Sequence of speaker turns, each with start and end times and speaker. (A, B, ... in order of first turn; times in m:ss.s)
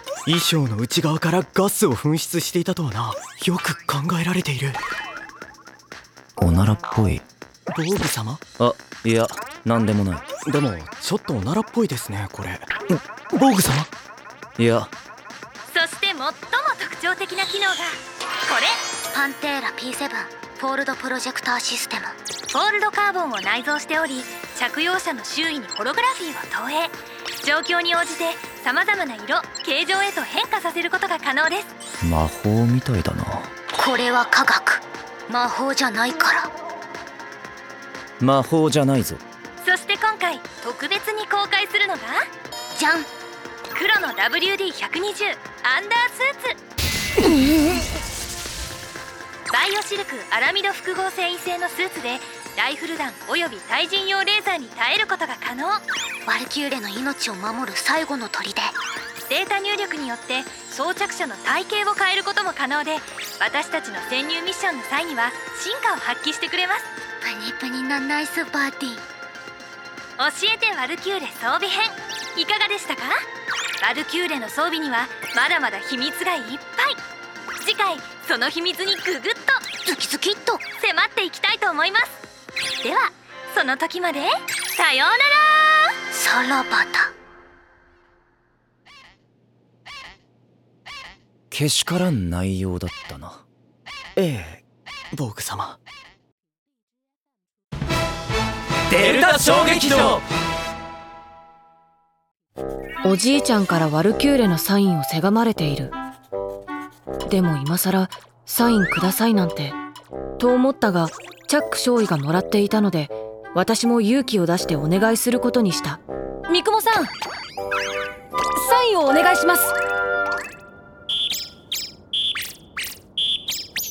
0:00.3-0:04.8 A
0:06.4-0:07.3 B
0:07.7-0:08.4 A
0:08.6-0:10.3 B
0:10.5-0:12.7 A
0:13.3-0:13.9 A
0:14.6-0:14.9 B
0:15.7-0:18.8 C
0:19.1-0:22.2 D
0:22.5-0:31.7 C
0:32.0-0:33.5 B
0:33.8-0:36.5 D
0:38.2-0:39.2 B
0:39.6-0:42.2 C
0:42.8-0:43.1 D
0:43.7-0:46.5 C
0:49.5-0:55.8 C
0:56.3-0:58.7 D
0:59.3-1:06.9 C
1:07.2-1:09.0 D
1:10.2-1:13.1 C
1:13.8-1:17.0 C
1:17.6-1:19.6 C
1:19.9-1:20.6 D
1:20.8-1:22.2 C
1:22.8-1:25.9 C
1:26.1-1:27.1 D
1:31.5-1:33.4 B
1:34.2-1:34.6 A
1:35.1-1:35.8 A
1:38.9-1:40.2 A
1:43.0-1:46.0 E
1:47.3-1:49.8 E
1:50.4-1:57.1 E
1:58.6-1:59.7 E